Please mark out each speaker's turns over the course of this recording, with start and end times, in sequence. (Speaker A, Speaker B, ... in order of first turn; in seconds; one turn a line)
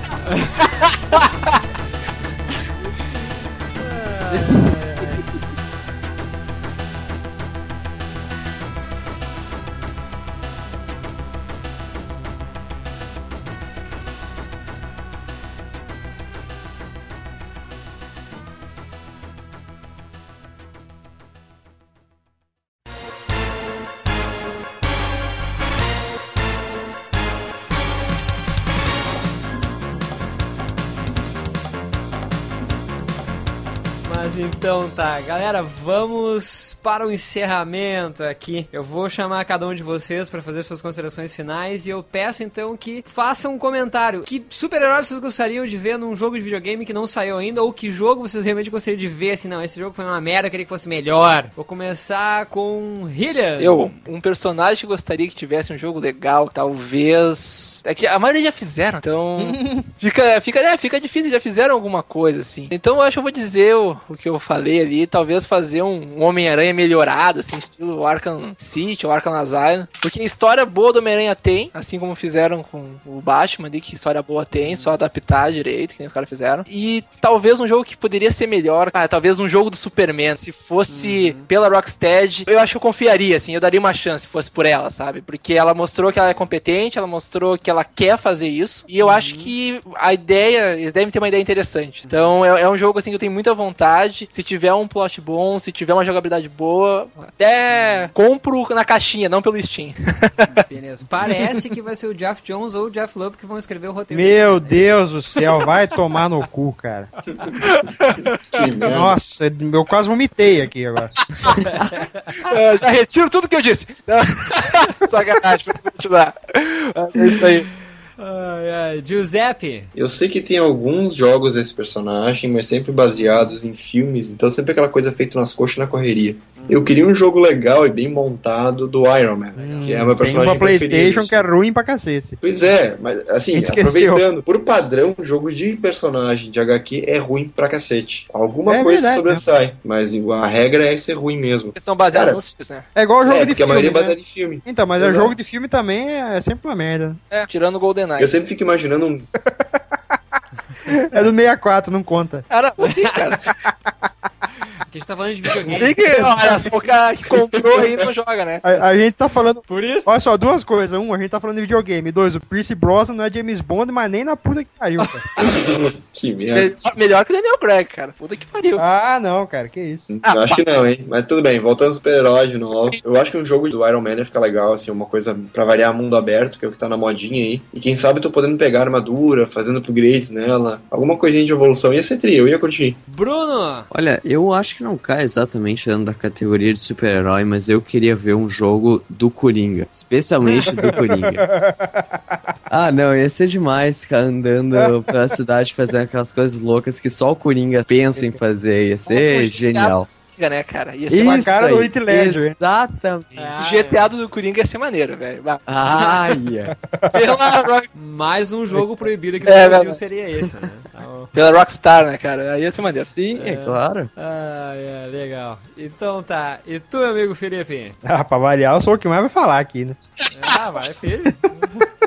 Speaker A: 0.2-0.8
Speaker B: 0.9-1.3
Speaker A: 3.8-5.3
Speaker C: 4.3-4.8
Speaker A: 34.0-53.9
Speaker B: 53.6-100.5
Speaker C: 59.4-59.9
Speaker A: 74.6-75.0
Speaker A: 80.9-81.5
Speaker A: 89.0-89.5
Speaker A: 97.7-98.1
Speaker A: 100.5-104.9
Speaker C: 104.1-107.1
Speaker B: 107.6-109.0
Speaker D: 108.5-109.2
Speaker C: 108.9-111.1
Speaker E: 111.4-111.9
Speaker A: 111.6-112.3
Speaker B: 112.4-117.7
Speaker A: 118.2-119.9
Speaker D: 120.0-131.5
Speaker A: 123.2-123.5
Speaker A: 126.6-126.9
Speaker A: 129.6-129.9
Speaker C: 129.6-132.4
Speaker D: 132.4-142.4
Speaker C: 133.5-134.2
Speaker C: 138.7-139.4
Speaker B: 141.8-142.9
Speaker C: 143.0-147.2
Speaker D: 143.2-145.3
Speaker B: 147.3-148.4
Speaker D: 148.2-149.3
Speaker C: 149.4-149.8
Speaker C: 150.9-152.5
Speaker B: 152.5-153.5
Speaker A: 152.8-153.2
Speaker A: 154.9-156.0
Speaker C: 155.7-156.8
Speaker B: 155.7-158.6
Speaker D: 157.6-157.9
Speaker C: 158.6-165.2
Speaker A: 159.7-160.1
Speaker D: 165.4-166.7
Speaker B: 166.5-168.8
Speaker C: 168.8-170.1
Speaker D: 170.1-183.0
Speaker B: 170.2-170.6
Speaker A: 183.1-183.9
Speaker E: 183.9-191.4
Speaker C: 190.7-192.4
Speaker E: 192.7-200.1
Speaker B: 199.1-201.6
Speaker E: 201.1-203.3
Speaker C: 201.2-202.6
Speaker A: 203.3-204.1
Speaker B: 203.6-205.6
Speaker E: 205.7-206.8
Speaker C: 206.8-207.2
Speaker B: 207.1-207.9
Speaker A: 207.9-211.3
Speaker B: 209.4-210.0
Speaker B: 211.3-213.1
Speaker E: 213.0-214.1
Speaker A: 213.3-218.0
Speaker C: 218.1-220.0
Speaker A: 220.3-221.9